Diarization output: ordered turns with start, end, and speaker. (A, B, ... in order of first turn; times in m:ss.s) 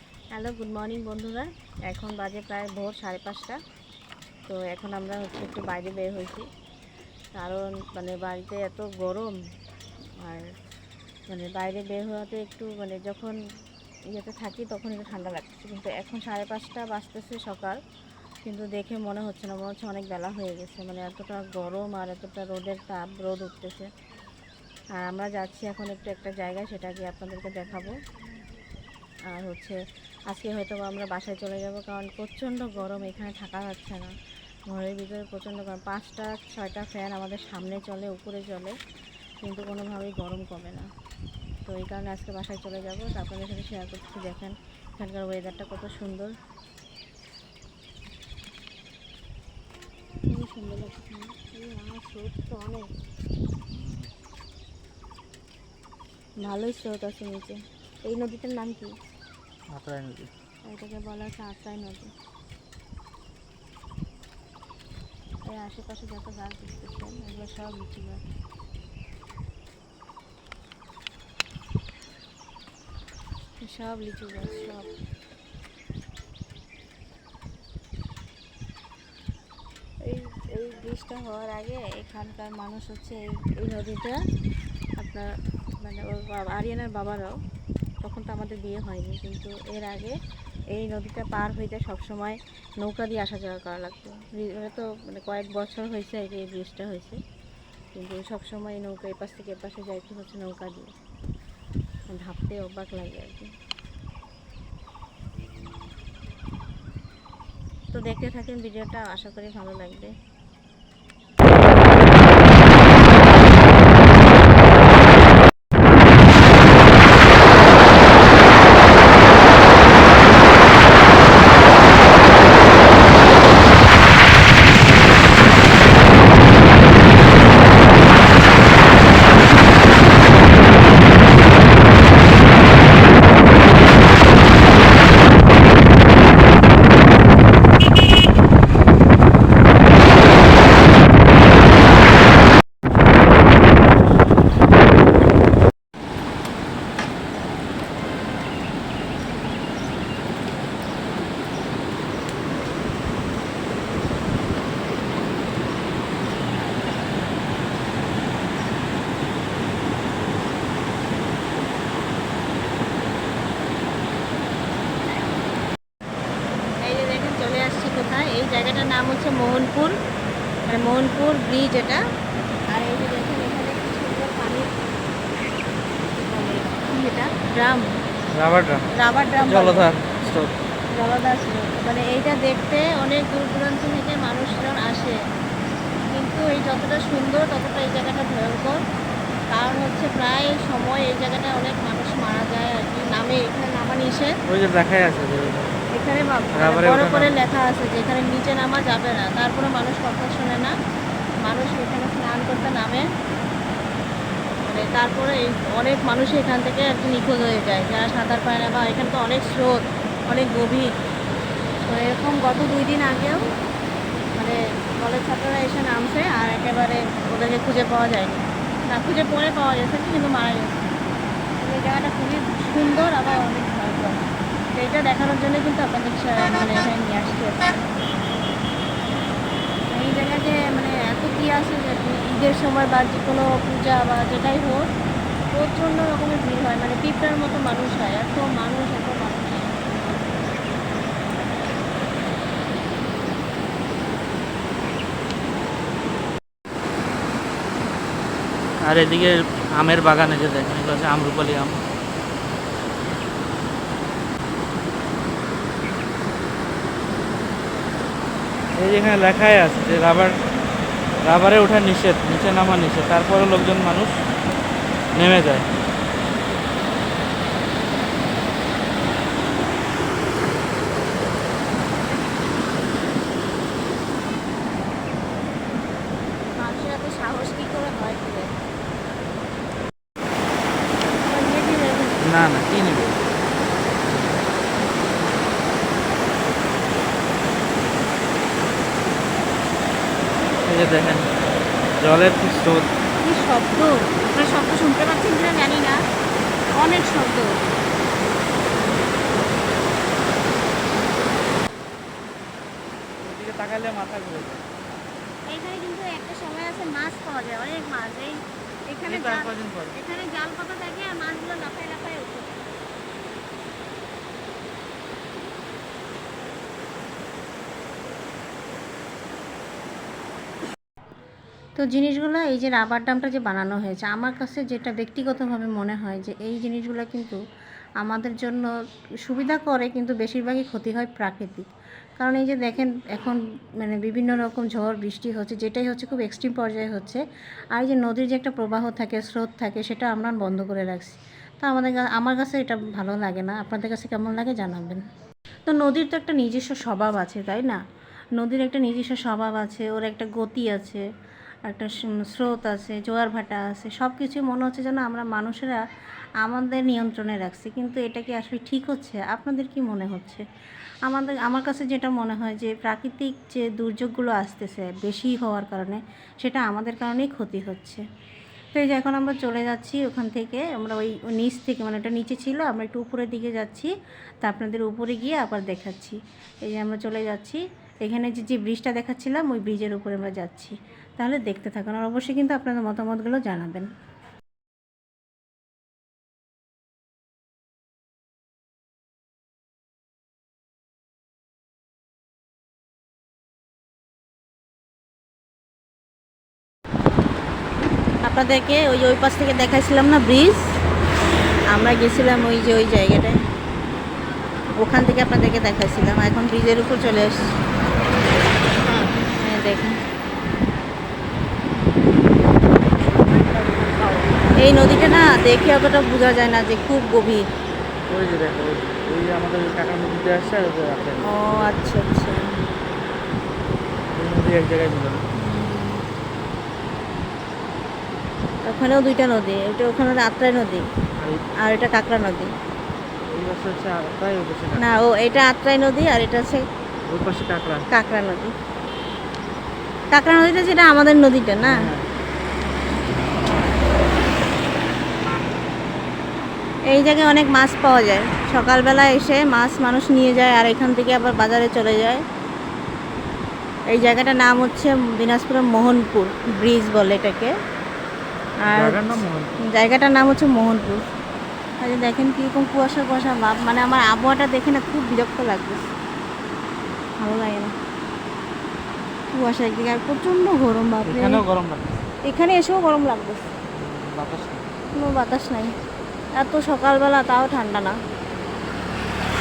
0:00.3-0:03.6 A
0:04.5-0:06.5 A
0:07.4-0:09.3 A
0:10.2-0:10.5 A
0:11.3-0:13.4 A
0:14.1-0:17.8 A
0:18.4-0:23.9 A
0:25.0-0:27.9 A
0:29.3-0:29.8 A
0:30.3-0:34.1 A
0:34.7-0:38.8 A
0:39.4-0:40.9 A
0:41.6-0:46.3 A
0:50.3-0:52.9 A
0:53.7-0:54.1 B
0:56.4-0:58.9 A
0:59.7-1:00.3 B
1:00.6-1:02.1 A
1:05.5-1:08.2 A
1:13.6-1:14.9 A
1:20.0-1:24.2 A
1:25.0-1:25.3 A
1:25.8-1:27.4 A
1:28.0-1:30.2 A
1:30.7-1:37.2 A
1:37.9-1:40.9 A
1:42.1-1:43.5 A
1:47.9-1:50.1 A
2:46.8-2:49.9 A
2:50.7-2:52.0 A
2:52.7-2:54.7 A
2:56.1-2:57.9 A
2:58.3-2:58.8 B
2:59.0-3:00.3 A
2:59.4-3:00.5 B
3:00.9-3:05.2 A
3:06.1-3:08.8 A
3:09.5-3:14.4 A
3:14.5-3:15.8 B
3:15.9-3:20.7 A
3:16.5-3:17.4 B
3:21.4-3:23.0 A
3:24.6-3:30.9 A
3:31.8-3:33.5 A
3:34.3-3:40.9 A
3:41.6-3:47.8 A
3:49.9-3:54.8 A
3:55.5-4:00.0 A
4:08.8-4:11.8 B
4:18.8-4:20.4 B
4:21.2-4:24.2 B
4:25.1-4:25.6 B
4:36.5-4:38.5 A
4:41.2-4:42.2 A
4:42.2-4:43.2 B
4:50.6-4:51.3 B
4:52.0-4:52.9 B
4:53.2-4:56.0 A
4:56.8-4:57.6 A
5:03.2-5:04.6 B
5:05.5-5:12.6 A
5:09.0-5:09.9 B
5:21.8-5:27.4 A
5:28.0-5:28.7 A
5:29.2-5:31.7 A
5:32.2-5:37.2 A
5:37.7-5:45.0 A
5:45.7-5:47.8 A
5:48.4-5:51.0 A
5:51.6-5:55.8 A
5:56.4-6:00.4 A
6:01.0-6:08.0 A
6:08.7-6:23.9 A
6:38.2-6:40.8 A
6:41.7-6:43.4 A
6:44.7-6:47.4 A
6:48.8-6:50.0 A
6:53.6-6:57.5 A
6:58.1-7:02.0 B
7:01.2-7:02.6 A
7:04.1-7:05.2 B
7:05.4-7:06.0 A
7:08.6-7:10.8 A
7:11.2-7:11.4 B
7:11.6-7:12.5 A
7:13.3-7:14.9 B
7:14.8-7:16.7 A
7:17.1-7:17.8 B
7:17.9-7:18.5 A
7:20.1-7:21.8 A
7:21.6-7:22.1 B
7:26.9-7:32.2 A
7:33.9-7:37.5 A
7:38.6-7:41.0 A
7:38.6-7:39.6 B
7:41.8-7:45.9 A
7:47.2-7:47.7 A
7:49.3-7:51.4 A
7:51.0-7:52.0 B
7:52.2-7:53.4 A
7:53.7-7:54.7 B
7:54.9-7:55.7 A
7:56.4-7:58.0 A